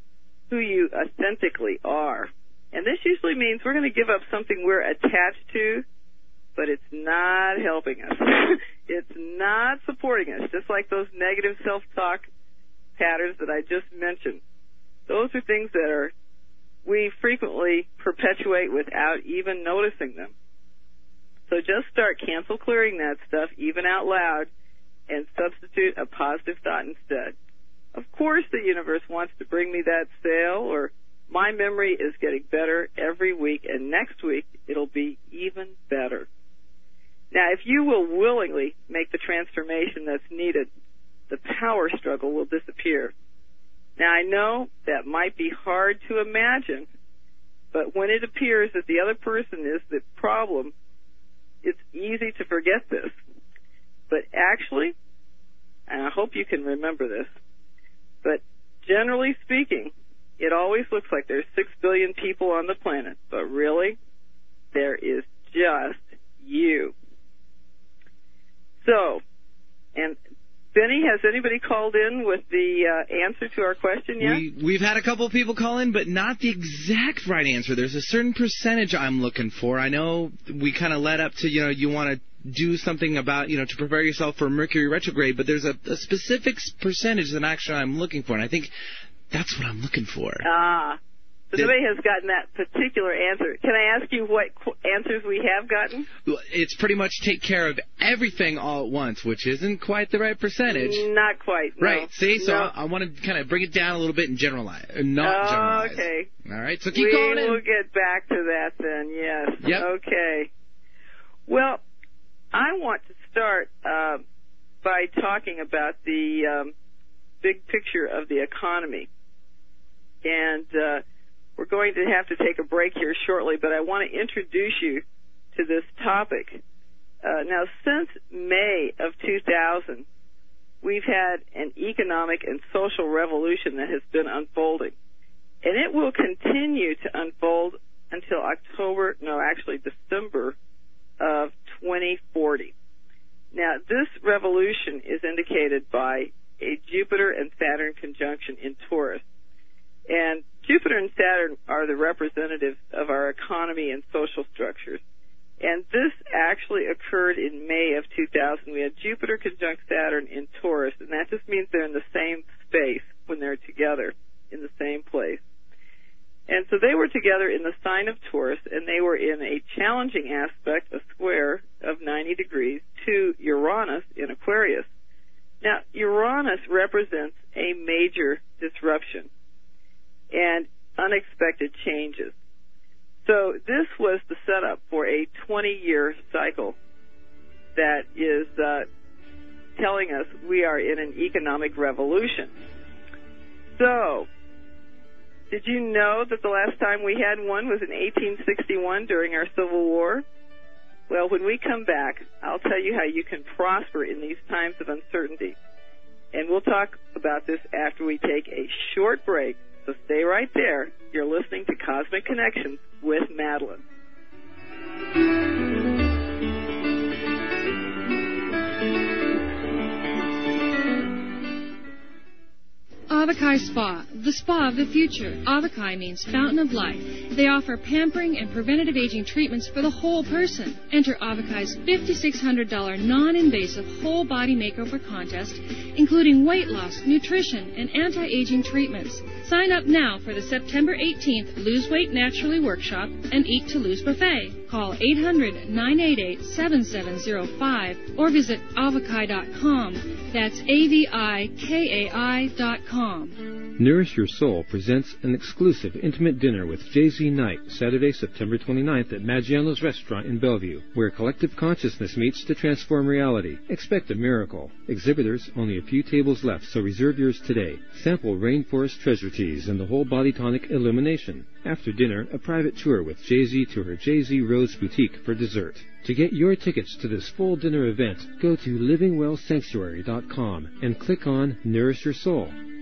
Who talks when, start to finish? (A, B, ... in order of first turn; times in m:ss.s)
0:00.5-0:05.8 A
0:06.6-0:12.3 A
0:13.0-0:14.4 A
0:15.1-0:16.1 A
0:16.8-0:20.3 A
0:21.5-0:24.5 A
0:25.1-0:27.3 A
0:27.9-0:36.3 A
0:37.3-0:40.7 A
0:41.3-0:43.1 A
0:44.0-0:46.9 A
0:47.7-0:50.7 A
0:51.6-0:53.2 A
0:54.1-0:54.9 A
0:55.9-0:57.3 A
0:58.2-1:04.0 A
1:04.7-1:06.9 A
1:08.8-1:09.2 A
1:10.7-1:14.4 A
1:14.2-1:28.7 B
1:29.3-1:30.5 B
1:30.4-1:31.0 A
1:31.5-1:36.1 A
1:36.3-1:41.1 B
1:40.7-1:42.7 A
1:41.8-1:47.6 B
1:45.2-1:46.3 A
1:46.9-1:50.5 A
1:49.6-1:49.9 B
1:51.5-1:51.8 A
1:52.5-1:54.2 A
1:54.8-1:56.7 A
1:57.4-1:59.1 A
2:00.2-2:01.0 A
2:01.6-2:05.0 A
2:05.6-2:06.6 A
2:07.2-2:10.1 A
2:10.8-2:14.9 A
2:15.6-2:20.6 A
2:21.2-2:22.7 A
2:23.5-2:29.2 A
2:30.1-2:35.0 A
2:35.6-2:45.4 A
2:46.5-2:54.9 A
2:55.6-2:59.3 A
3:00.3-3:02.3 A
3:03.2-3:06.8 A
3:07.8-3:08.9 A
3:09.8-3:12.5 A
3:13.8-3:14.3 A
3:15.5-3:20.2 A
3:21.1-3:25.6 A
3:26.3-3:33.8 A
3:43.1-4:13.4 C
4:13.8-4:42.6 D